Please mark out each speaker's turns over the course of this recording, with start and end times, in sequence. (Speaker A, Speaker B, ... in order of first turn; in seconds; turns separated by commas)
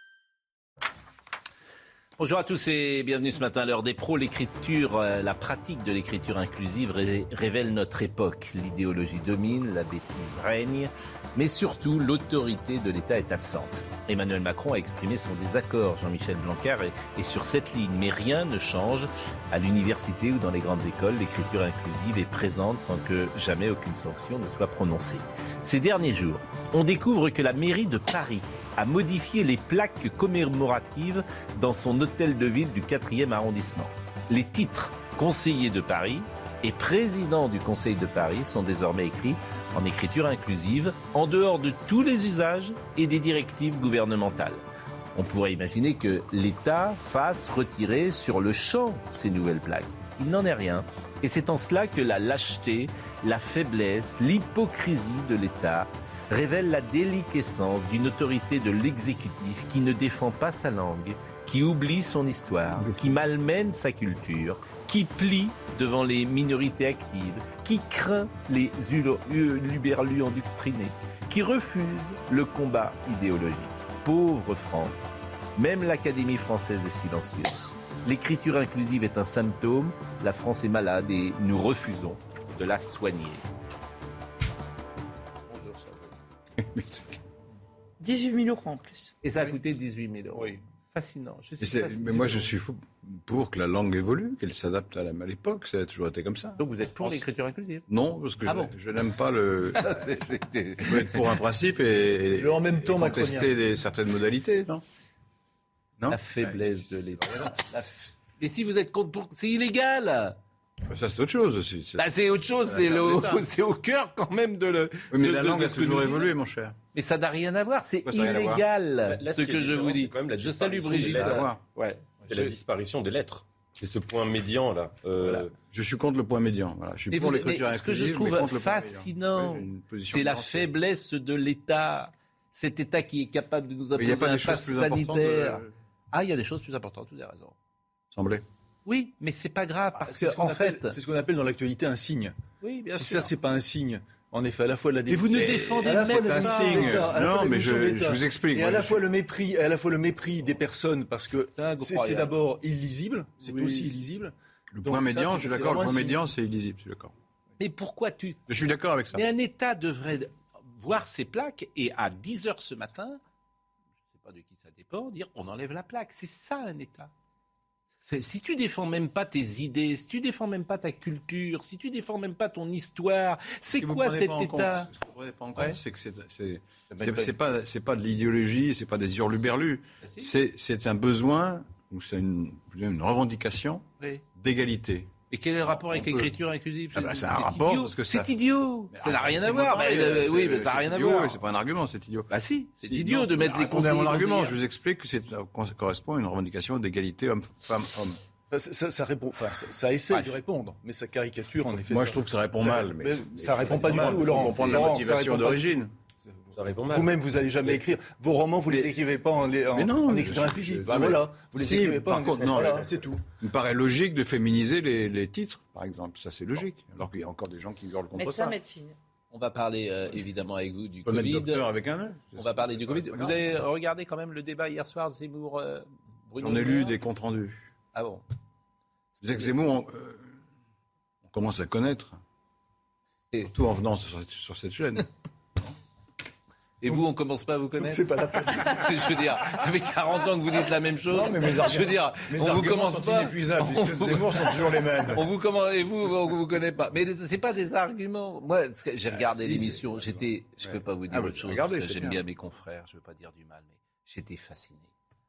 Speaker A: 2.2-44.6, Speaker A: 45.1-83.4, Speaker B: 62.7-63.1, Speaker A: 85.5-86.1, Speaker B: 86.6-87.2, Speaker C: 88.0-89.1, Speaker A: 89.2-92.5, Speaker B: 91.6-97.2, Speaker A: 96.6-97.8, Speaker B: 97.9-100.0, Speaker A: 98.4-98.7, Speaker A: 99.7-101.4, Speaker B: 100.8-104.8, Speaker D: 102.3-103.5, Speaker B: 106.0-107.5, Speaker A: 106.1-110.4, Speaker B: 110.8-113.4, Speaker A: 112.0-116.3, Speaker B: 115.1-116.8, Speaker A: 116.9-122.5, Speaker B: 118.0-118.6, Speaker E: 119.1-121.5, Speaker B: 120.9-121.6, Speaker E: 122.3-125.5, Speaker A: 125.2-125.5, Speaker B: 125.7-130.7, Speaker A: 127.1-137.5, Speaker B: 133.9-135.7, Speaker B: 138.1-138.4, Speaker A: 138.8-140.9, Speaker D: 140.0-142.3, Speaker A: 142.6-143.3, Speaker D: 142.9-156.2, Speaker A: 145.1-147.1, Speaker B: 145.3-149.0, Speaker A: 151.5-152.3, Speaker A: 153.4-153.9, Speaker B: 154.7-157.1, Speaker A: 157.6-158.5, Speaker B: 158.5-159.3, Speaker A: 159.1-163.2, Speaker A: 164.1-167.1, Speaker A: 168.0-174.9, Speaker B: 173.7-185.1, Speaker A: 176.9-177.4, Speaker A: 180.0-180.3, Speaker A: 185.3-191.4, Speaker B: 185.6-186.3, Speaker B: 186.9-188.3, Speaker B: 188.9-192.3, Speaker A: 192.3-194.6, Speaker B: 192.8-198.2, Speaker D: 198.5-205.8, Speaker A: 200.1-200.3, Speaker B: 201.9-205.9, Speaker E: 203.8-204.6, Speaker E: 206.5-207.1, Speaker D: 206.9-213.2, Speaker B: 209.7-218.5, Speaker C: 218.1-218.9, Speaker A: 219.3-221.7, Speaker B: 221.1-223.5, Speaker A: 222.3-227.0, Speaker B: 226.4-227.6, Speaker A: 227.9-228.2, Speaker A: 229.2-229.5, Speaker B: 229.2-230.4, Speaker B: 231.2-232.2, Speaker B: 233.5-235.1, Speaker A: 236.8-254.9, Speaker D: 237.8-239.2, Speaker B: 241.1-245.2, Speaker B: 249.2-252.2